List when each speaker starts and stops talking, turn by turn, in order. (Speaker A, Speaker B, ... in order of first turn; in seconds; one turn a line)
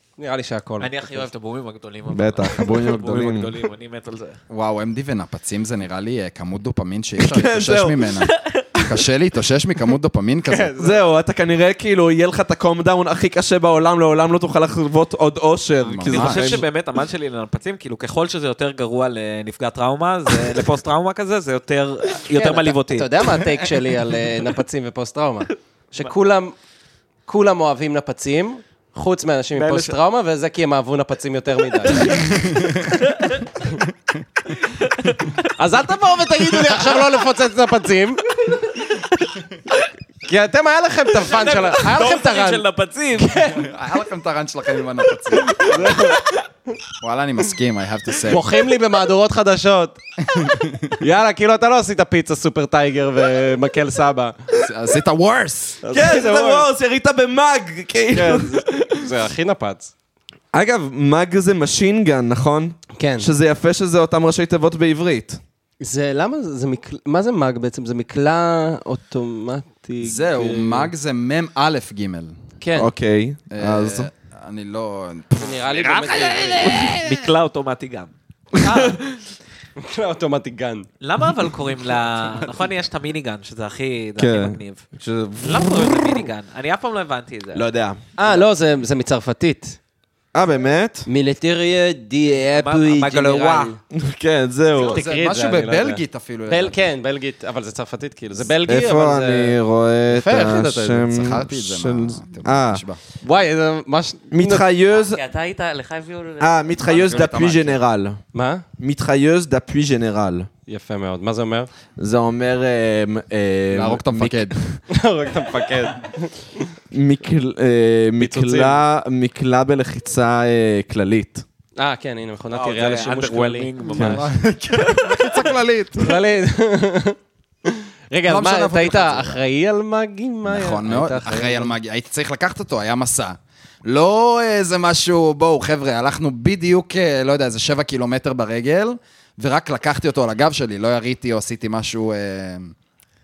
Speaker A: 0.2-1.3
Speaker B: 0.8-4.4
Speaker C: 2.1-3.5
Speaker D: 4.5-10.9
Speaker C: 7.2-8.1
Speaker B: 8.4-8.6
Speaker A: 10.5-11.0
Speaker C: 10.8-16.6
Speaker D: 15.8-16.6
Speaker B: 16.1-23.1
Speaker A: 22.3-26.5
Speaker A: 27.3-32.6
Speaker B: 29.6-30.0
Speaker B: 32.9-33.5
Speaker B: 34.6-35.5
Speaker A: 35.6-38.2
Speaker A: 40.3-42.6
Speaker B: 41.3-43.4
Speaker A: 43.2-43.7
Speaker D: 43.5-46.0
Speaker A: 45.6-46.2
Speaker D: 47.0-48.5
Speaker A: 48.3-50.0
Speaker D: 50.3-51.0
Speaker A: 51.0-54.4
Speaker D: 54.5-55.8
Speaker A: 55.8-56.7
Speaker C: 55.9-59.1
Speaker A: 58.1-59.9
Speaker C: 60.5-65.4
Speaker A: 63.0-63.3
Speaker A: 65.8-70.9
Speaker D: 70.0-72.4
Speaker A: 72.6-72.9
Speaker C: 72.8-74.1
Speaker D: 73.5-77.2
Speaker A: 75.4-76.9
Speaker B: 76.2-79.0
Speaker C: 78.6-79.2
Speaker A: 79.8-80.9
Speaker B: 81.0-84.9
Speaker C: 84.2-86.1
Speaker B: 85.4-87.7
Speaker C: 87.5-88.0
Speaker A: 88.2-89.8
Speaker C: 90.3-91.1
Speaker A: 91.1-93.8
Speaker B: 92.5-93.7
Speaker C: 93.9-95.0
Speaker D: 94.8-96.9
Speaker A: 94.8-101.1
Speaker C: 98.7-102.8
Speaker D: 101.0-103.0
Speaker A: 103.2-104.7
Speaker C: 104.3-105.2
Speaker B: 105.0-106.6
Speaker C: 106.4-108.2
Speaker D: 106.8-107.8
Speaker A: 108.3-108.6
Speaker C: 108.8-110.5
Speaker A: 110.7-111.7
Speaker C: 112.0-114.8
Speaker D: 113.7-114.6
Speaker A: 114.9-116.7
Speaker C: 116.9-121.5
Speaker A: 118.2-118.8
Speaker A: 121.8-123.7
Speaker B: 122.5-124.3
Speaker D: 124.0-126.1
Speaker C: 124.0-124.2
Speaker B: 124.9-125.2
Speaker A: 126.0-131.8
Speaker D: 128.3-129.4
Speaker D: 130.5-142.7